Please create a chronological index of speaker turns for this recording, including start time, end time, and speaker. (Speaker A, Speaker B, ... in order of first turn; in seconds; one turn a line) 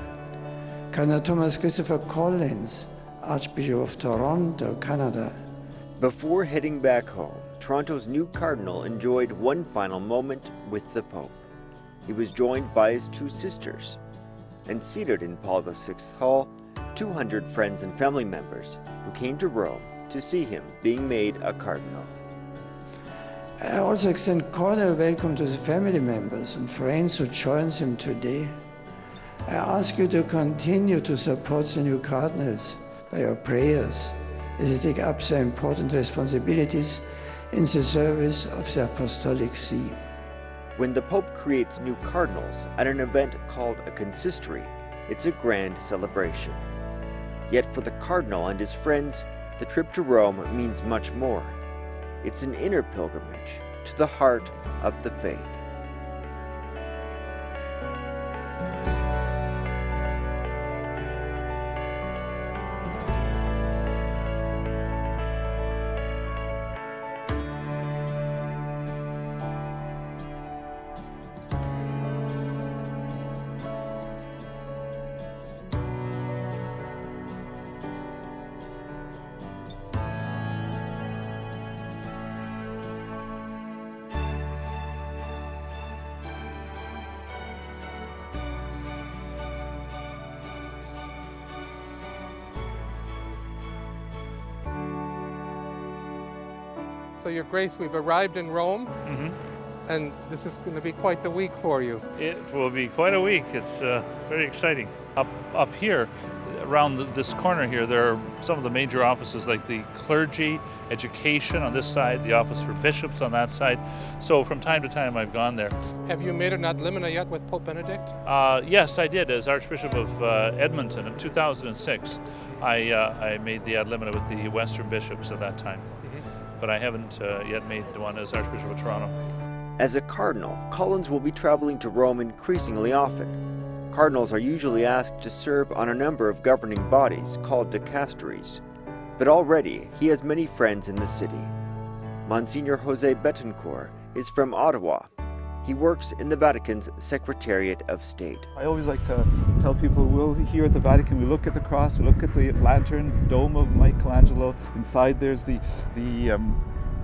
Speaker A: 0.9-5.4
Speaker B: 6.0-11.5
Speaker B: 12.1-14.0
Speaker B: 14.7-22.2
Speaker A: 23.6-28.6
Speaker A: 29.5-40.0
Speaker B: 40.8-46.6
Speaker B: 47.5-51.6
Speaker B: 52.2-55.6
Speaker C: 97.2-98.9
Speaker D: 99.0-99.4
Speaker C: 99.9-102.0
Speaker D: 102.2-115.8
Speaker C: 116.0-118.2
Speaker D: 118.2-126.0
Speaker D: 126.6-129.1
Speaker B: 129.8-133.4
Speaker B: 133.9-138.6
Speaker B: 139.2-141.5
Speaker B: 142.3-145.1
Speaker B: 145.6-148.5
Speaker E: 148.5-156.6